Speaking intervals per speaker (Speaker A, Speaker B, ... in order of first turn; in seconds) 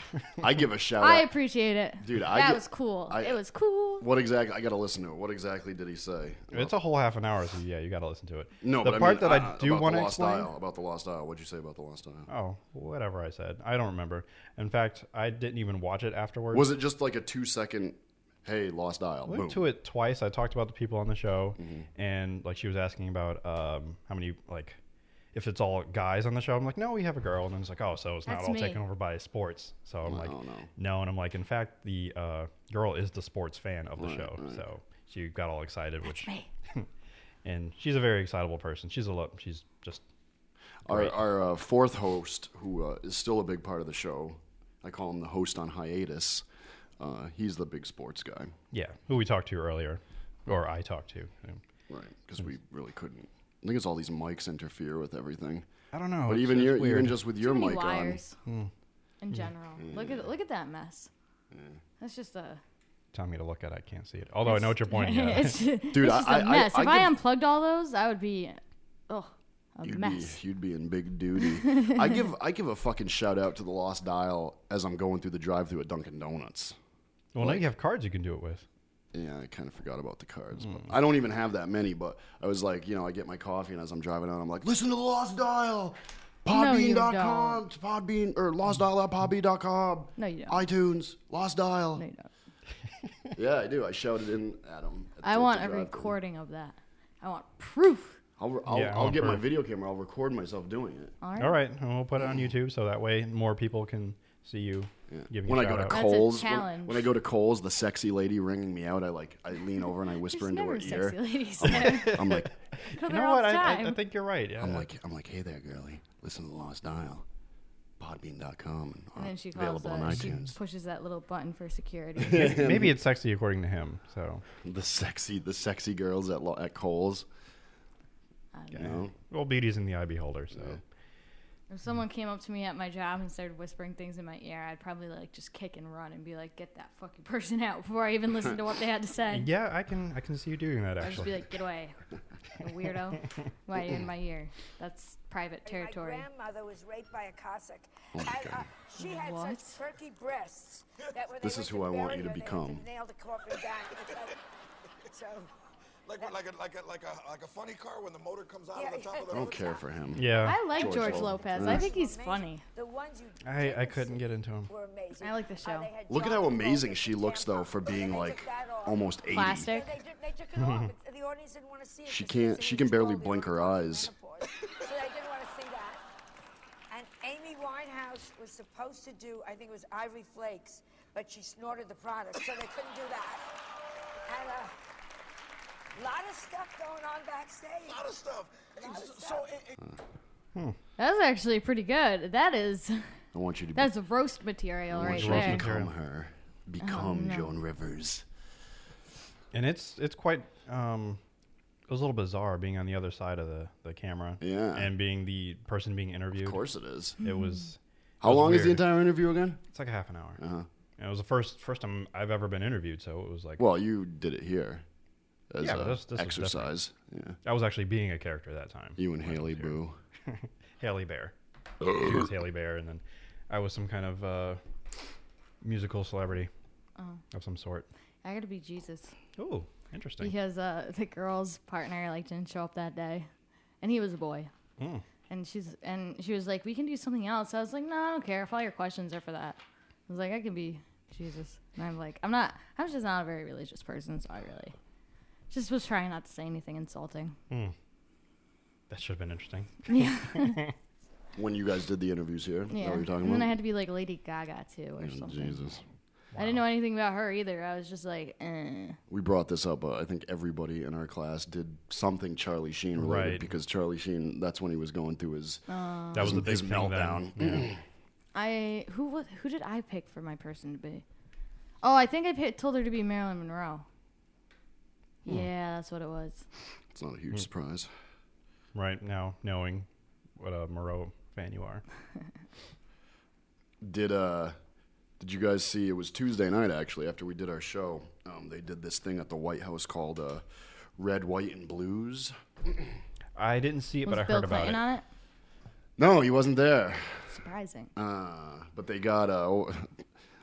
Speaker A: 0.4-1.3, 2.0-3.4, 4.0-6.8, 8.6-12.3, 16.5-19.7, 21.6-21.9, 30.0-30.7, 34.0-34.6, 40.9-46.4, 47.0-48.5, 51.9-55.7, 56.2-58.2, 59.8-60.2, 61.5-61.8, 65.9-67.2, 69.8-76.8, 77.4-77.6, 79.1-92.0, 93.3-96.1, 98.4-101.1, 102.2-102.5, 105.1-112.5, 114.6-117.2, 118.0-120.5, 122.2-123.0, 124.6-127.2, 128.7-129.1, 130.5-130.8, 148.1-148.6, 151.4-152.8, 159.3-161.9, 166.1-169.7, 172.1-174.1, 193.3-193.9, 194.9-198.2, 204.4-204.9, 206.3-207.2, 208.2-209.6, 210.4-210.7, 213.6-214.8, 215.5-217.4, 219.0-219.9, 251.3-253.6, 255.0-255.8, 259.1-267.8, 276.9-277.9, 283.8-284.6, 285.2-290.4, 291.0-292.8, 296.0-297.3, 297.9-299.9
Speaker B: 1.0-4.1, 28.2-28.8, 36.1-36.5, 57.4-58.4, 59.2-61.1, 62.0-62.6, 64.5-70.4, 71.6-72.1, 86.5-87.6, 90.2-90.6, 92.0-92.3, 95.2-98.2, 101.2-101.6, 105.9-107.1, 110.3-112.2, 112.9-114.0, 119.2-122.6, 128.5-129.0, 131.7-139.5, 141.0-142.0, 142.6-146.2, 149.0-149.8, 160.4-162.6, 165.2-165.9, 169.3-169.9, 191.0-193.1, 193.7-195.6, 196.8-197.5, 207.2-207.6, 227.0-227.2, 228.2-229.1, 230.2-233.3, 233.8-234.5, 235.3-244.7, 245.5-247.3, 249.9-250.6, 252.7-255.6, 256.4-259.0, 265.7-266.4, 268.3-271.0, 271.8-273.8, 275.2-276.4, 294.1-295.0, 297.3-297.9
Speaker C: 6.5-10.5, 12.3-16.7, 19.2-24.8, 25.3-36.9, 37.4-40.0, 40.9-41.2, 48.7-51.6, 55.9-57.2, 63.1-65.6, 77.3-78.6, 98.7-99.4, 101.4-106.1, 111.6-114.9, 122.3-124.4, 128.7-130.8, 139.3-141.4, 160.2-160.7, 163.4-164.7, 170.6-170.9, 195.0-195.9, 199.5-201.2, 201.9-206.6, 207.2-208.8, 209.7-210.4, 211.0-213.6, 215.6-216.7, 217.4-221.3, 221.9-224.6, 225.6-226.5, 227.3-227.9, 229.4-230.3, 234.8-235.0, 248.9-250.7, 256.3-256.6, 263.0-263.5, 266.1-267.7, 278.7-279.9, 280.4-281.8, 293.4-294.8
Speaker D: 145.6-154.4, 155.1-155.5, 158.7-159.8, 160.8-176.0, 176.9-183.4, 184.3-184.7, 185.9-188.0, 188.8-189.5
Speaker E: 156.1-159.6, 187.9-189.7